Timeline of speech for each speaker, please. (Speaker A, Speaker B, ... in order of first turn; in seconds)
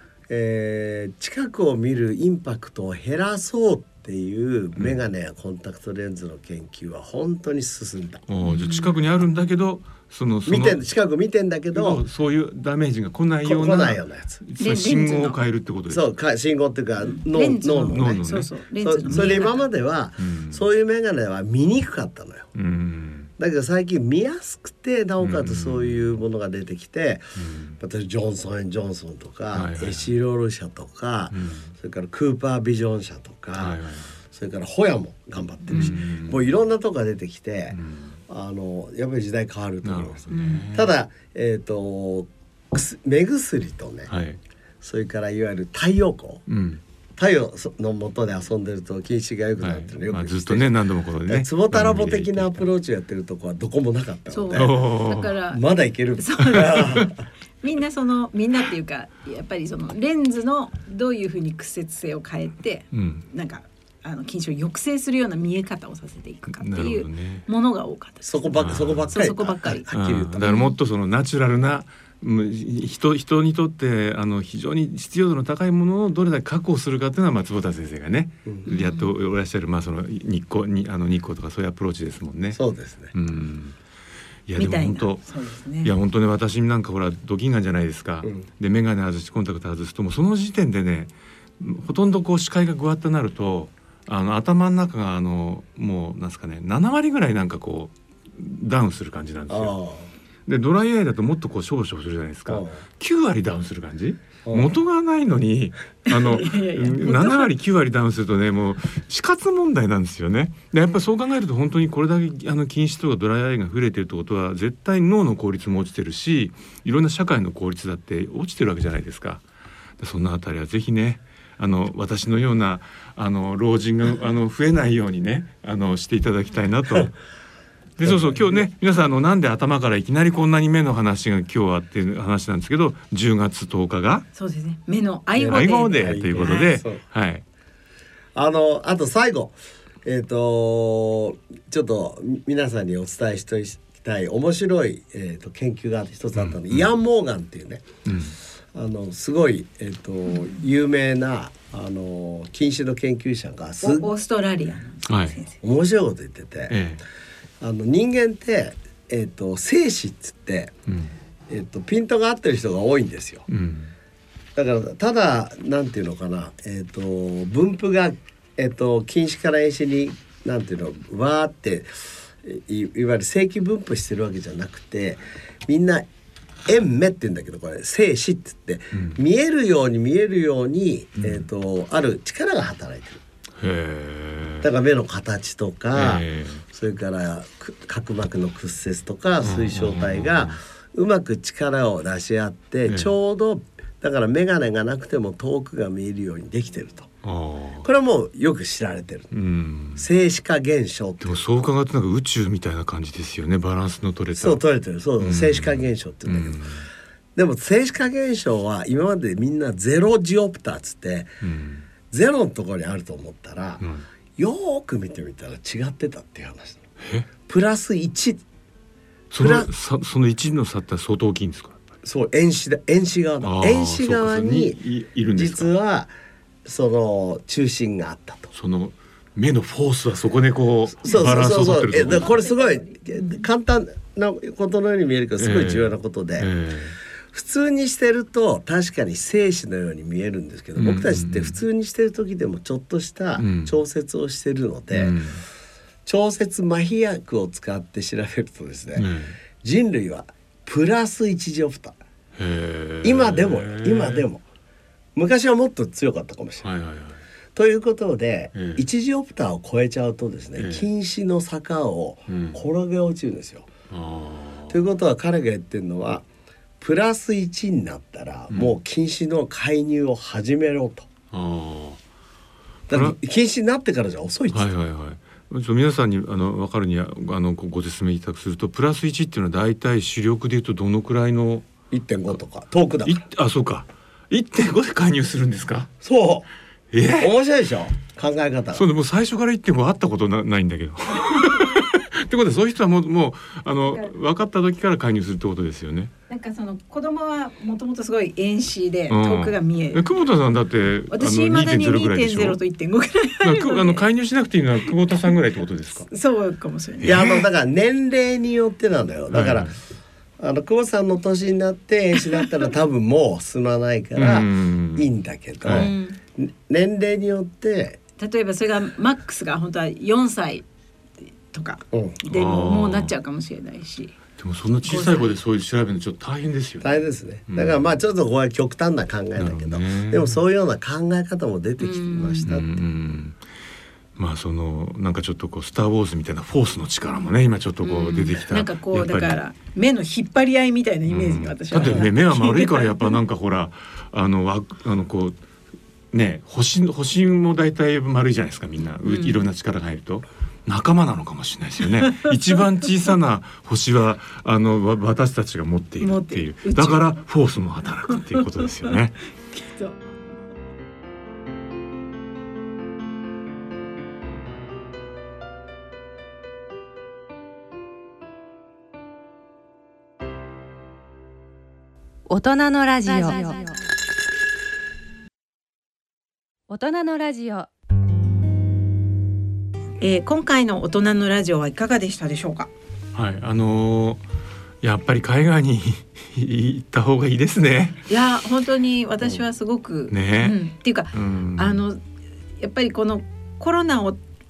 Speaker A: 0.3-8.2, 10.5-12.0, 13.4-14.4, 15.9-18.2, 18.8-22.5, 23.4-27.3, 27.8-33.8, 34.3-44.1, 44.8-46.4, 47.2-50.8, 51.3-54.8, 55.5-57.2, 68.2-70.4, 82.5-83.1, 99.5-100.1, 102.5-102.8, 104.5-104.7, 128.0-128.6, 135.4-137.0, 138.3-147.9, 148.7-154.1, 155.6-156.8, 157.6-160.7, 161.5-163.4, 164.6-176.1, 176.7-183.2, 184.6-197.1, 197.8-199.3, 200.0-201.4, 204.3-206.6, 207.3-211.3, 212.1-213.8, 214.4-216.8, 217.4-218.4, 219.4-219.7, 222.0-224.8, 225.3-226.1, 226.7-228.5, 231.0-236.5, 237.3-245.2, 246.1-249.1, 249.6-252.0, 253.0-254.4, 255.2-256.6, 257.6-263.7, 264.7-266.2, 266.8-271.1, 272.9-274.7, 281.9-283.2, 286.0-286.5, 287.2-288.8, 307.0-309.7, 310.4-318.0, 321.9-322.2, 326.8-332.7
Speaker B: 8.3-10.8, 11.7-16.1, 17.9-18.5, 19.1-19.4, 20.2-20.6, 22.6-23.3, 25.2-26.1, 27.4-27.8, 29.5-30.1, 31.3-31.7, 33.6-34.2, 35.7-36.4, 37.7-38.2, 39.8-40.9, 44.1-44.4, 46.5-46.8, 49.6-52.7, 54.5-55.4, 56.6-57.1, 62.9-63.2, 66.5-67.5, 68.6-69.1, 69.9-82.6, 83.1-83.8, 84.5-85.2, 85.8-99.8, 100.5-119.4, 120.0-127.2, 128.0-134.3, 135.5-137.4, 146.3-146.8, 148.1-148.4, 155.1-155.4, 156.7-157.0, 160.9-161.1, 163.5-163.9, 178.9-179.2, 181.2-181.4, 183.6-184.7, 185.9-186.6, 189.4-190.6, 192.9-193.1, 197.2-197.9, 199.3-200.1, 201.2-204.6, 205.2-206.9, 211.4-211.9, 213.8-214.1, 217.0-217.3, 219.3-221.9, 223.4-225.7, 228.5-232.4, 235.4-237.0, 240.8-241.6, 243.4-243.8, 244.9-245.4, 248.9-249.4, 252.4-254.3, 256.6-257.2, 258.5-258.8, 260.6-260.9, 262.3-262.6, 263.9-264.9, 268.5-268.8, 271.3-272.0, 272.9-273.2, 274.5-281.7, 283.1-285.9, 286.9-287.3, 288.7-296.1, 299.1-302.6, 303.4-306.1, 307.0-307.5, 309.3-309.8, 314.2-315.1, 315.6-315.9, 322.3-323.1, 324.4-326.9, 327.5-327.9, 329.4-330.4, 332.4-333.4, 334.2-339.4, 341.1-345.4, 346.1-359.2, 383.1-384.2, 384.8-388.0, 390.1-390.6, 391.1-391.8
Speaker C: 8.4-8.9, 14.6-15.4, 17.0-19.7, 35.7-36.0, 40.3-40.7, 54.3-55.6, 56.2-70.8, 78.7-79.1, 84.6-85.9, 106.1-107.5, 134.3-136.7, 153.8-155.6, 232.2-233.4, 296.3-300.1, 301.1-304.1, 306.1-307.2, 315.7-316.2, 318.2-320.6, 321.5-324.2, 324.8-325.3, 331.8-332.5, 337.8-343.2, 349.0-349.4, 356.0-357.2, 358.2-359.0, 359.5-360.0, 373.2-373.5, 380.0-382.7, 388.1-392.0, 392.6-394.2
Speaker D: 372.3-373.8, 376.7-377.7